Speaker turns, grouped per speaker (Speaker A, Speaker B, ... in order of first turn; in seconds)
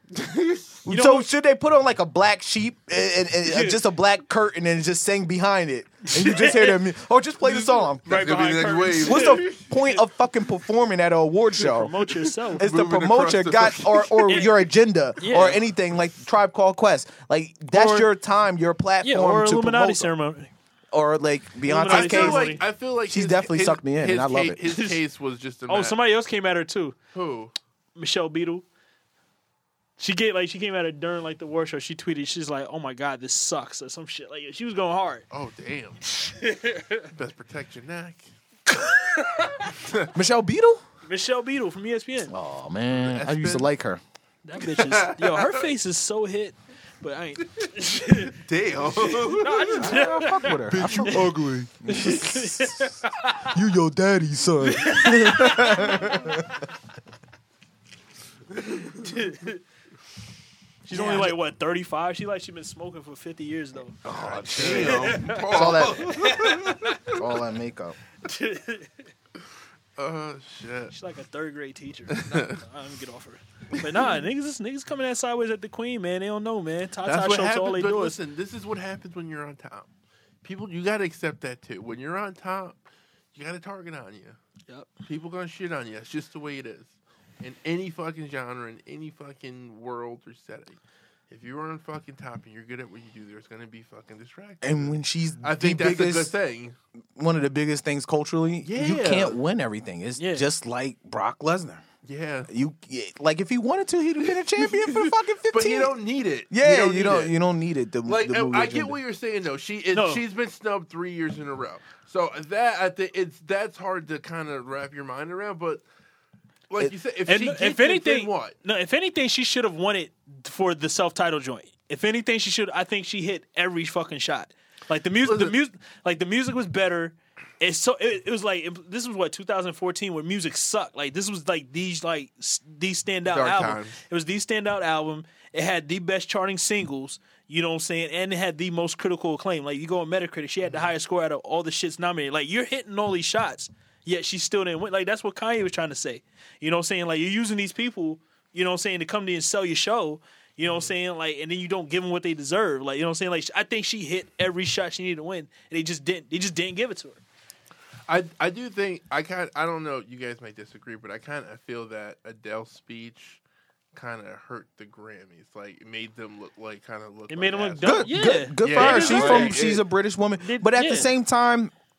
Speaker A: 0.1-0.8, 8.1-9.7, 12.6-14.4, 21.9-26.0, 27.1-27.5, 35.3-36.0, 37.1-38.2, 39.8-40.1, 42.9-43.7, 44.6-45.6, 47.6-50.1, 50.7-51.6, 64.0-67.2, 70.0-70.9, 72.1-72.6, 77.0-79.9, 80.4-82.8, 83.3-84.4, 85.0-90.8, 91.3-96.8, 98.6-99.4, 102.0-102.5, 104.6-107.3, 108.0-115.8, 116.7-118.5, 125.2-125.5, 133.2-134.0, 150.7-150.9, 158.1-163.4, 163.9-168.1, 168.6-169.8
Speaker B: 0.8-8.2, 9.0-11.9, 12.6-20.1, 20.9-24.6, 40.1-40.8, 42.3-44.0, 49.8-52.9, 53.5-56.5, 60.9-61.4, 64.0-66.5, 67.0-68.0, 94.6-96.3, 97.2-101.8, 102.5-105.9, 106.5-109.0, 167.8-171.7
Speaker C: 0.9-1.3, 3.5-3.8, 6.0-6.8, 7.5-9.5, 11.6-12.6, 15.2-15.6, 17.7-18.1, 19.0-20.5, 21.6-22.6, 24.6-25.0, 25.7-26.9, 27.9-28.6, 30.0-35.2, 36.1-37.1, 38.7-39.7, 41.1-42.3, 44.4-48.4, 49.0-51.3, 51.9-53.5, 54.7-56.4, 58.9-59.6, 60.9-64.0, 64.6-67.1, 68.2-69.1, 70.9-78.2, 100.2-100.5, 109.9-110.2, 117.3-157.2, 167.3-169.6, 170.4-171.1